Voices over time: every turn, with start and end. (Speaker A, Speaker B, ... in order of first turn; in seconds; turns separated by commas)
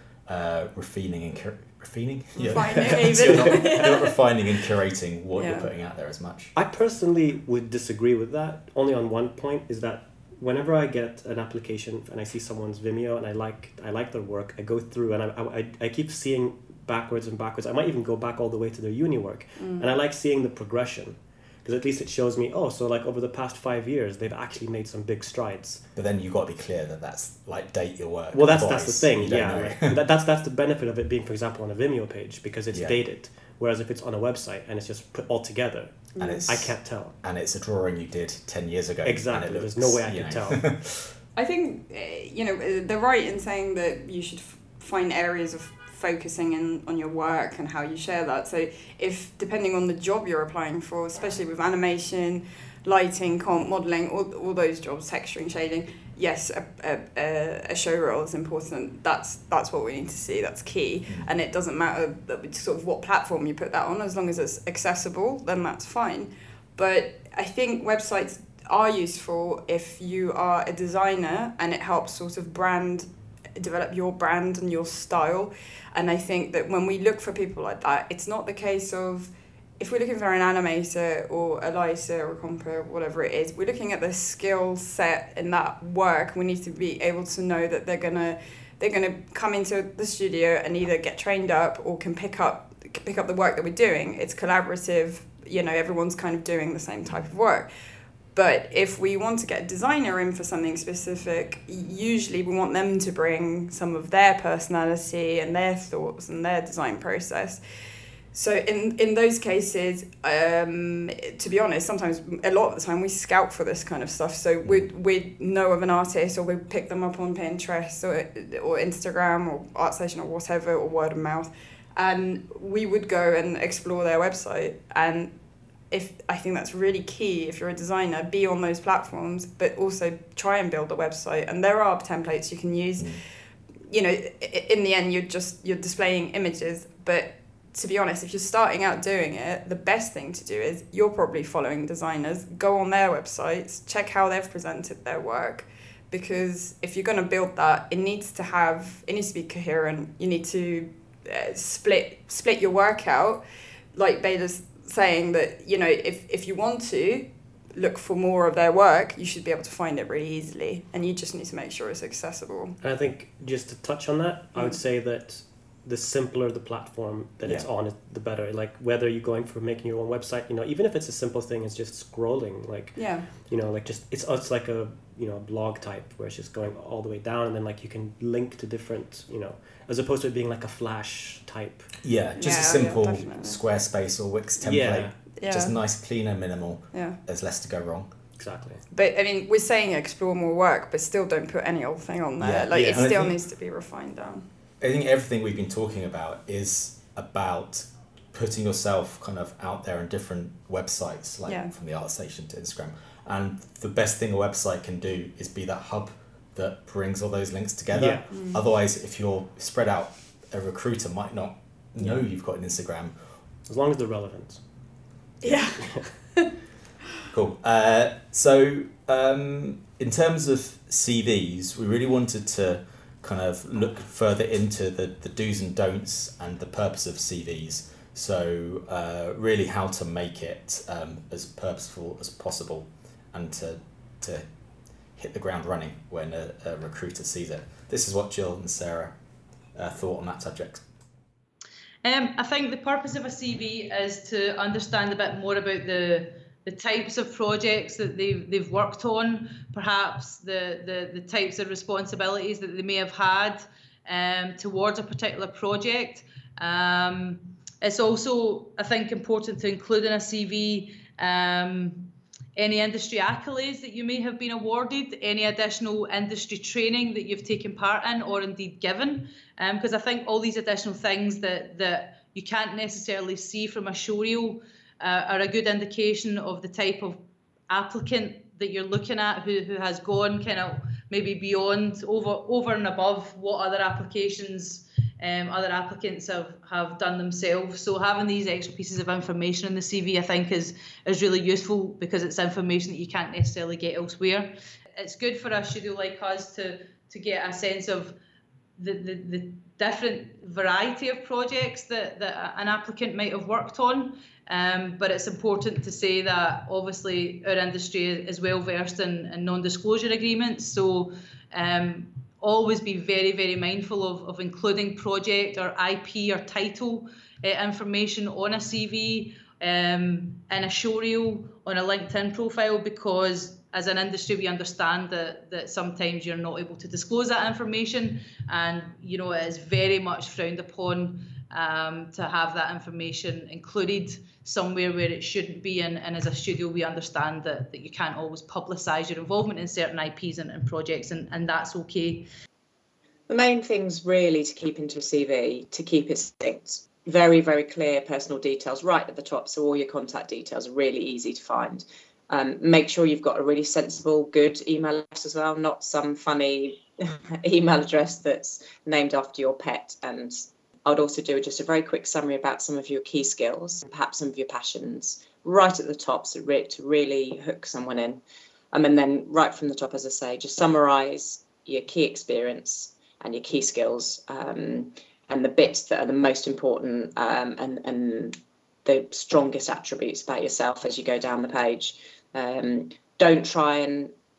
Speaker A: 0.2-6.5, Speaker B: 2.4-4.2, Speaker B: 5.3-5.7, Speaker C: 6.5-25.8, Speaker B: 19.6-19.9, Speaker A: 25.9-30.0, Speaker C: 28.3-37.1, Speaker A: 32.7-33.0, Speaker B: 36.1-36.5, Speaker A: 36.2-41.1, Speaker C: 39.0-40.6, Speaker B: 41.3-97.7, Speaker A: 61.1-61.3, Speaker B: 98.3-107.6, Speaker B: 108.3-125.3, Speaker B: 125.9-133.2, Speaker B: 133.9-153.4, Speaker B: 153.9-162.8, Speaker C: 162.8-181.9, Speaker B: 172.9-173.3, Speaker A: 182.0-188.1, Speaker B: 182.4-183.6, Speaker C: 184.6-185.2, Speaker B: 185.4-185.8, Speaker C: 188.4-188.8, Speaker B: 188.9-194.4, Speaker A: 192.4-193.4, Speaker C: 192.7-193.1, Speaker A: 194.8-213.2, Speaker B: 201.4-201.7, Speaker C: 207.9-208.3, Speaker B: 208.3-208.6, Speaker C: 213.7-214.6, Speaker B: 215.4-216.5, Speaker C: 215.8-216.1, Speaker A: 217.3-234.4, Speaker A: 235.2-239.2, Speaker A: 239.7-240.8, Speaker D: 242.0-298.1, Speaker D: 298.8-342.3, Speaker E: 343.3-368.2, Speaker E: 368.7-384.1